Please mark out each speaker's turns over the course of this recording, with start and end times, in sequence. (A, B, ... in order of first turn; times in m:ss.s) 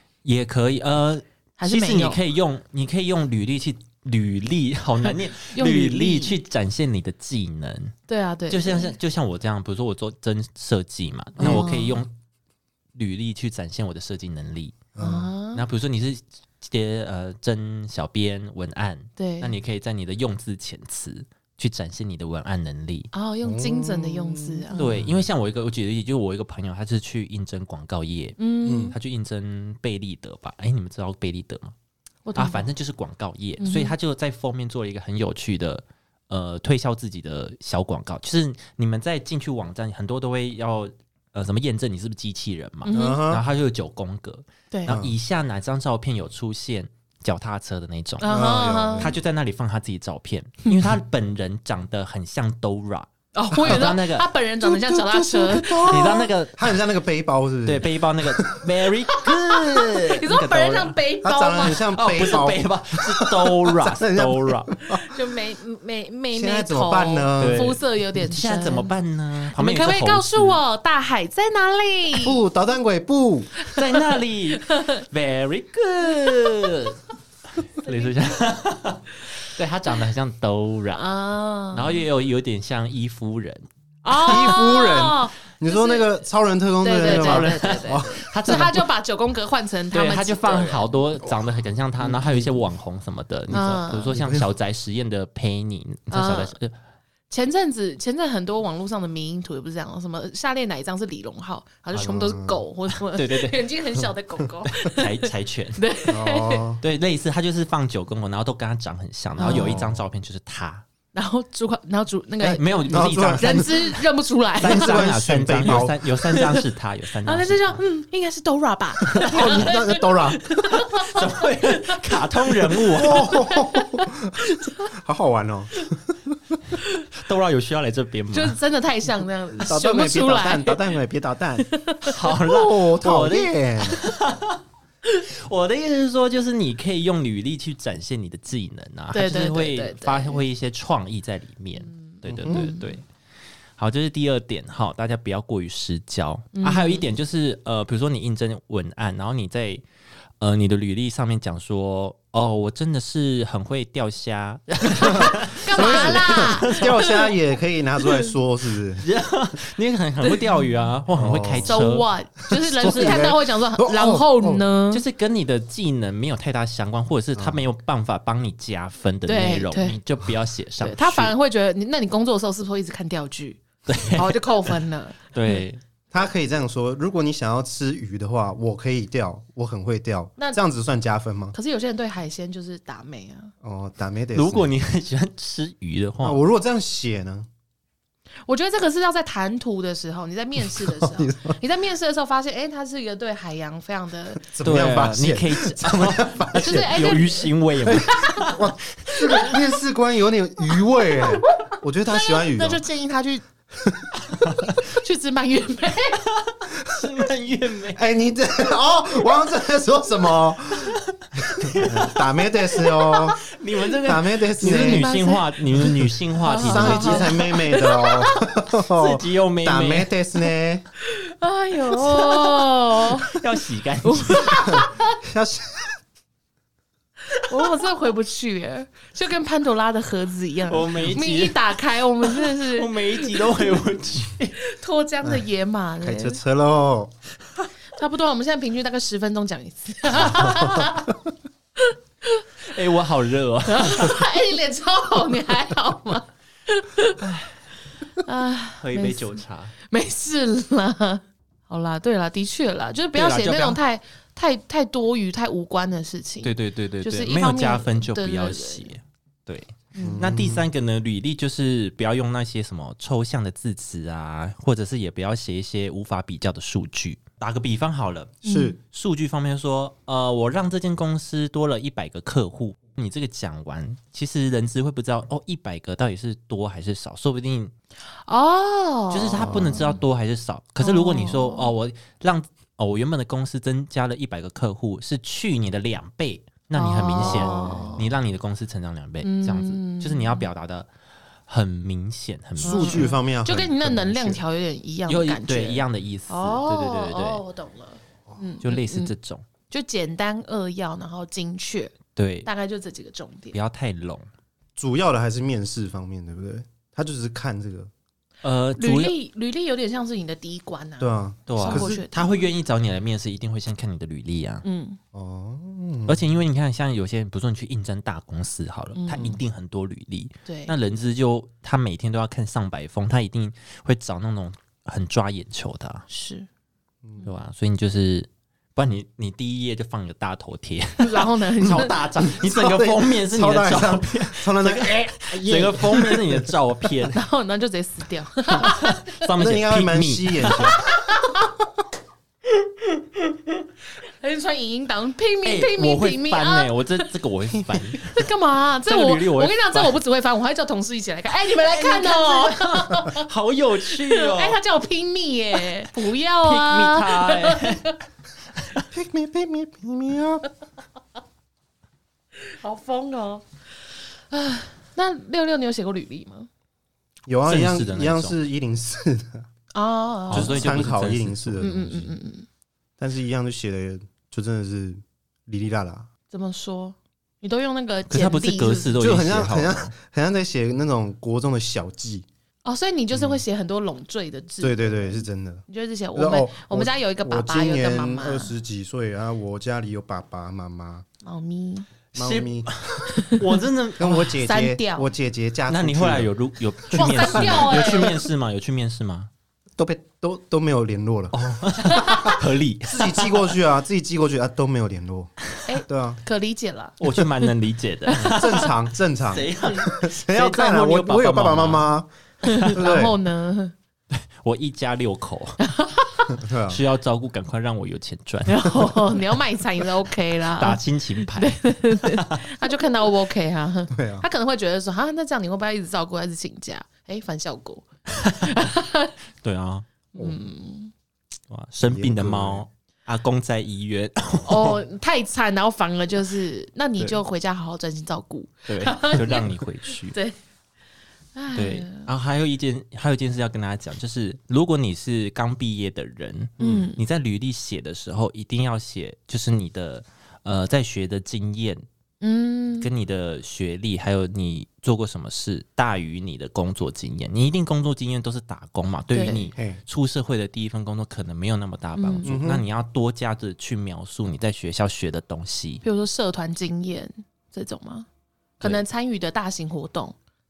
0:00.2-0:08.0 A
0:01.6-0:02.2 B
0:05.0-0:06.4 B
0:08.1-0:09.0 B
0:08.5-0:12.1 A
0:11.4-0:11.8 C
0:11.4-0:12.0 B
0:13.0-0:14.9 A
0:15.0-0:15.3 C
0:15.0-0:15.6 B
0:15.5-0:23.1 A
0:19.2-0:19.6 B
0:23.1-0:24.9 B
0:23.4-0:25.2 C
0:24.8-0:28.4 A
0:28.4-0:29.0 B
0:28.7-0:29.0 C
0:28.9-0:31.7 A
0:32.3-0:32.7 B
0:32.4-0:48.4 A
0:33.6-0:34.0 B
0:42.8-0:43.2 B
0:42.9-0:43.4 C
0:44.7-0:45.0 B
0:44.9-0:45.2 C
0:48.2-0:49.1 B
0:48.3-0:49.2 C
0:49.0-0:53.1 A
0:53.3-0:56.3 B
0:53.6-0:53.9 C
0:53.6-0:54.3 A
0:54.6-0:58.8 C
0:55.8-0:56.8 A
0:57.7-1:01.0 A
0:59.1-1:02.0 B
1:01.2-1:05.2 C
1:01.9-1:04.7 A
1:05.1-1:09.0 B
1:06.3-1:07.8 C
1:07.4-1:10.6 A
1:09.5-1:12.4 B
1:12.2-1:13.5 C
1:13.7-1:14.0 B
1:13.7-1:17.0 A
1:16.4-1:16.7 B
1:17.7-1:21.0 A
1:17.9-1:18.1 B
1:21.0-1:22.0 B
1:21.7-1:24.6 A
1:24.0-1:26.1 B
1:24.3-1:28.3 C
1:26.8-1:31.0 B
1:27.0-1:28.9 A
1:29.9-1:36.7 A
1:32.0-1:32.4 C
1:33.5-1:34.2 B
1:34.1-1:34.5 C
1:36.1-1:36.6 B
1:37.3-1:46.6 B
1:41.9-1:42.6 C
1:42.9-1:43.6 A
1:44.7-1:45.8 A
1:46.1-1:46.8 C
1:46.8-1:50.8 A
1:49.4-1:49.8 B
1:49.5-1:50.0 C
1:51.1-1:55.1 B
1:52.5-1:53.7 C
1:52.5-1:54.0 A
1:54.6-1:57.8 A
1:54.6-1:56.0 C
1:56.3-1:56.6 B
1:57.2-2:04.9 B
1:59.1-2:00.5 C
1:59.3-1:59.6 A
2:00.7-2:03.3 A
2:02.9-2:06.6 C
2:06.8-2:07.0 B
2:07.2-2:08.6 A
2:08.3-2:10.8 B
2:09.5-2:11.7 C
2:11.6-2:12.6 B
2:12.0-2:23.0 A
2:12.5-2:14.0 C
2:19.1-2:20.4 B
2:21.8-2:23.0 B
2:22.4-2:22.7 C
2:23.8-2:29.8 A
2:26.5-2:27.0 B
2:30.4-2:37.1 A
2:35.0-2:39.1 C
2:35.0-2:37.3 B
2:39.0-2:42.1 A
2:40.2-2:40.7 B
2:41.1-2:41.8 C
2:41.6-2:45.0 B
2:42.5-2:44.6 C
2:42.8-2:43.3 A
2:44.9-2:51.3 A
2:47.4-2:47.6 C
2:49.3-2:50.0 B
2:50.8-2:55.6 B
2:53.9-2:54.7 A
2:55.3-2:55.8 A
2:56.1-3:01.6 C
3:01.5-3:03.5 B
3:03.6-3:04.7 C
3:04.4-3:06.4 A
3:06.2-3:07.5 C
3:08.5-3:14.4 B
3:10.7-3:11.6 C
3:14.4-3:17.1 C
3:14.6-3:19.6 A
3:16.6-3:18.4 B
3:17.8-3:22.8 C
3:21.2-3:23.4 B
3:23.8-3:24.1 C
3:24.4-3:24.8 A
3:24.8-3:26.2 B
3:26.2-3:28.0 A
3:27.9-3:31.0 C
3:30.9-3:32.2 A
3:31.7-3:33.4 C
3:33.1-3:37.5 A
3:34.0-3:35.1 C
3:34.6-3:35.5 B
3:35.8-3:40.9 C
3:36.4-3:38.4 B
3:38.9-3:40.1 A
3:41.1-3:43.4 B
3:42.0-3:44.7 A
3:44.0-3:45.2 B
3:44.6-3:46.0 C
3:47.4-3:53.4 B
3:50.7-3:54.6 A
3:54.6-3:56.4 B
3:56.0-3:57.1 C
3:58.0-4:01.2 B
4:01.8-4:02.5 B
4:02.7-4:04.3 A
4:03.7-4:07.2 B
4:07.2-4:07.5 A
4:08.2-4:18.9 B
4:08.8-4:09.7 A
4:13.1-4:13.8 A
4:16.4-4:37.7 A
4:19.9-4:20.2 B
4:20.0-4:20.7 C
4:28.4-4:28.8 B
4:28.4-4:28.8 C
4:38.3-4:40.0 B
4:39.1-4:50.9 A
4:40.8-4:41.7 B
4:46.7-4:48.0 B
4:47.2-4:48.1 C
4:49.2-4:50.5 B
4:51.5-4:53.1 A
4:52.6-4:54.4 C
4:52.6-4:59.1 B
4:55.1-4:57.4 A
4:58.6-4:59.5 A
4:59.7-5:03.6 B
5:02.2-5:02.5 A
5:03.5-5:04.3 A
5:04.8-5:07.9 C
5:08.4-5:09.2 A
5:08.8-5:12.5 B
5:11.0-5:12.0 C
5:11.5-5:14.6 A
5:14.6-5:15.0 B
5:15.1-5:16.2 C
5:16.1-5:26.0 A
5:19.0-5:19.4 B
5:20.5-5:20.7 B
5:26.1-5:26.5 B
5:27.2-5:37.2 A
5:31.0-5:32.0 B
5:32.2-5:36.5 C
5:37.1-5:39.2 B
5:38.6-5:40.8 A
5:39.4-5:40.9 C
5:40.8-5:41.5 B
5:44.2-5:47.0 B
5:45.4-5:48.3 A
5:48.0-5:53.2 B
5:48.8-5:50.0 A
5:51.5-5:54.6 A
5:53.9-5:58.0 B
5:56.4-5:58.0 A
5:58.9-6:00.5 C
6:02.5-6:03.4 B
6:04.3-6:06.5 B
6:07.3-6:09.5 C
6:07.5-6:08.4 A
6:09.7-6:10.7 B
6:10.3-6:11.6 A
6:10.3-6:12.1 C
6:11.6-6:12.5 B
6:13.0-6:16.1 C
6:16.3-6:19.0 B
6:18.1-6:19.9 A
6:19.0-6:22.3 C
6:22.6-6:28.5 B
6:23.1-6:23.4 C
6:24.6-6:25.6 C
6:26.2-6:31.0 C
6:31.2-6:31.9 B
6:32.2-6:33.2 C
6:32.2-6:34.4 A
6:33.1-6:33.4 B
6:34.0-6:36.3 C
6:34.4-6:35.1 B
6:35.7-6:39.3 A
6:36.9-6:38.2 C
6:36.9-6:38.2 B
6:39.8-6:45.3 C
6:41.3-6:43.5 A
6:41.8-6:42.4 B
6:45.6-6:47.5 B
6:45.9-6:46.2 C
6:47.0-6:48.8 A
6:48.1-6:48.4 B
6:48.2-6:53.2 C
6:49.3-6:52.7 A
6:52.4-6:53.7 B
6:54.1-6:55.6 A
6:55.6-6:56.4 B
6:56.4-6:56.8 C
6:56.7-6:58.9 A
6:58.5-7:09.1 B
7:00.5-7:02.5 A
7:03.9-7:04.3 C
7:08.2-7:08.6 A
7:09.4-7:09.9 A
7:10.1-7:10.9 B
7:11.5-7:14.8 A
7:11.8-7:12.6 C
7:14.4-7:20.4 B
7:18.7-7:20.2 A
7:21.4-7:22.1 B
7:21.6-7:31.8 A
7:26.6-7:26.9 C
7:26.6-7:27.0 B
7:32.2-7:32.9 B
7:32.8-7:45.8 A
7:39.1-7:39.5 B
7:42.0-7:42.4 B
7:42.2-7:42.6 C
7:45.8-7:48.1 B
7:48.6-7:50.2 B